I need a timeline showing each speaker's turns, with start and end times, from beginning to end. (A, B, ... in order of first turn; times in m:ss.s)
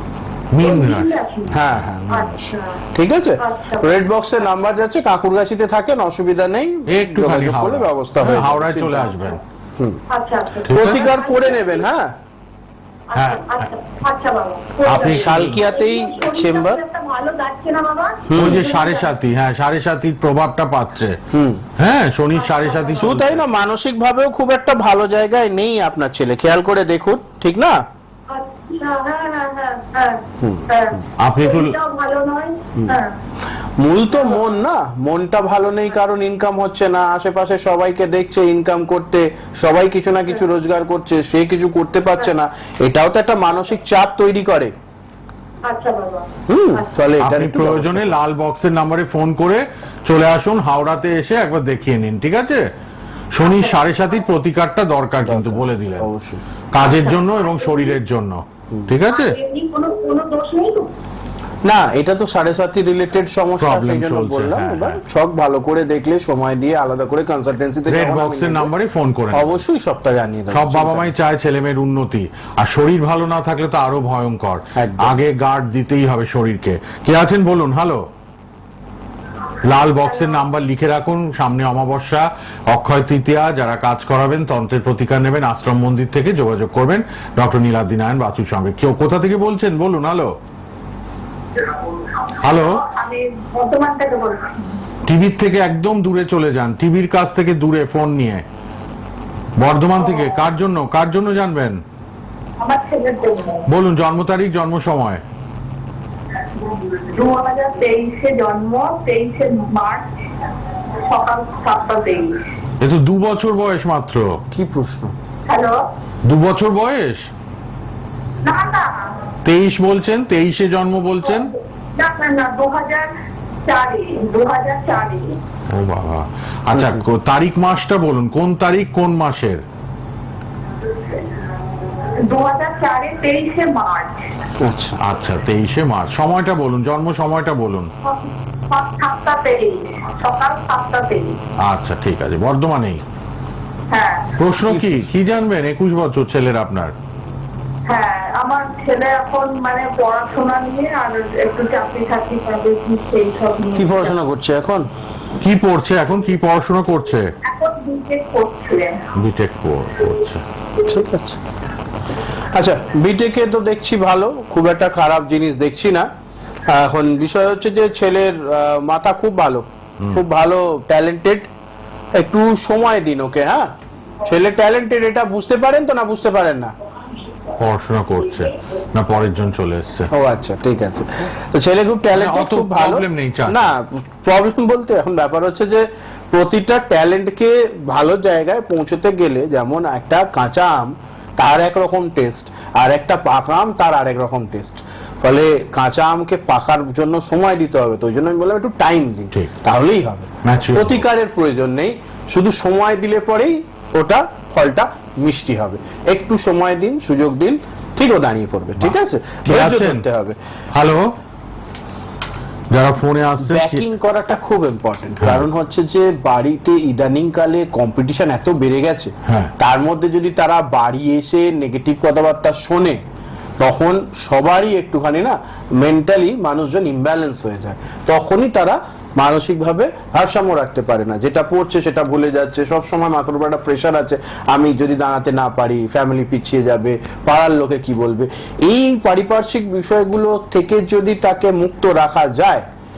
0:00.5-0:01.8 A
0:00.6-0:02.8 B
0:01.5-0:10.0 C
0:03.4-0:03.9 B
0:06.9-0:09.4 A
0:10.1-0:11.8 B
0:10.7-0:11.0 A
0:10.7-0:12.1 C
0:13.1-0:19.1 B
0:13.1-0:13.7 A
0:14.8-0:15.6 A
0:14.9-0:16.8 C
0:18.3-0:18.6 C
0:18.3-0:21.2 A
0:21.3-0:21.6 C
0:21.8-0:23.4 A
0:22.3-0:23.1 B
0:23.0-0:27.8 C
0:28.3-0:33.1 B
0:30.4-0:30.6 C
0:31.2-0:31.8 A
0:33.8-0:44.7 C
0:45.6-0:46.9 B
0:46.5-0:48.2 C
0:47.2-0:52.7 A
0:53.3-0:56.1 A
0:53.4-0:53.8 B
0:55.2-0:56.4 C
0:56.7-0:59.4 A
0:56.8-0:57.8 B
0:59.1-1:00.9 B
1:01.6-1:08.7 C
1:03.6-1:05.0 A
1:07.9-1:09.6 A
1:09.3-1:11.1 C
1:10.5-1:18.1 A
1:14.7-1:15.2 C
1:19.6-1:30.3 A
1:31.6-1:34.7 B
1:32.4-1:32.8 A
1:35.0-1:38.4 A
1:39.6-1:41.8 A
1:40.0-1:40.4 B
1:42.6-1:43.7 B
1:43.7-1:45.2 A
1:46.5-1:50.1 B
1:50.9-1:52.4 B
1:52.8-1:54.4 A
1:54.5-1:55.1 C
1:55.5-1:55.9 B
1:56.2-1:57.3 A
1:58.4-1:59.3 B
1:59.4-2:01.5 A
2:01.9-2:03.1 B
2:03.6-2:05.4 B
2:05.7-2:09.6 A
2:06.7-2:07.0 C
2:11.0-2:11.2 B
2:12.1-2:14.3 B
2:14.6-2:15.0 C
2:15.0-2:17.9 A
2:18.0-2:21.4 B
2:21.6-2:23.0 A
2:23.9-2:24.4 B
2:24.4-2:26.9 A
2:24.7-2:25.1 C
2:27.9-2:34.2 B
2:33.8-2:34.9 C
2:35.4-2:37.3 A
2:37.4-2:39.1 B
2:39.1-2:40.4 A
2:40.8-2:41.4 C
2:42.5-2:46.1 C
2:46.6-2:51.5 C
2:52.1-2:53.7 C
2:54.2-2:56.7 C
2:57.6-3:00.1 A
3:00.1-3:30.4 C
3:02.1-3:03.7 A
3:20.4-3:21.0 A
3:29.4-3:30.0 A
3:30.7-3:31.1 A
3:32.7-3:33.8 A
3:33.4-3:43.0 C
3:35.2-3:35.5 A
3:39.2-3:39.5 A
3:43.6-4:02.6 C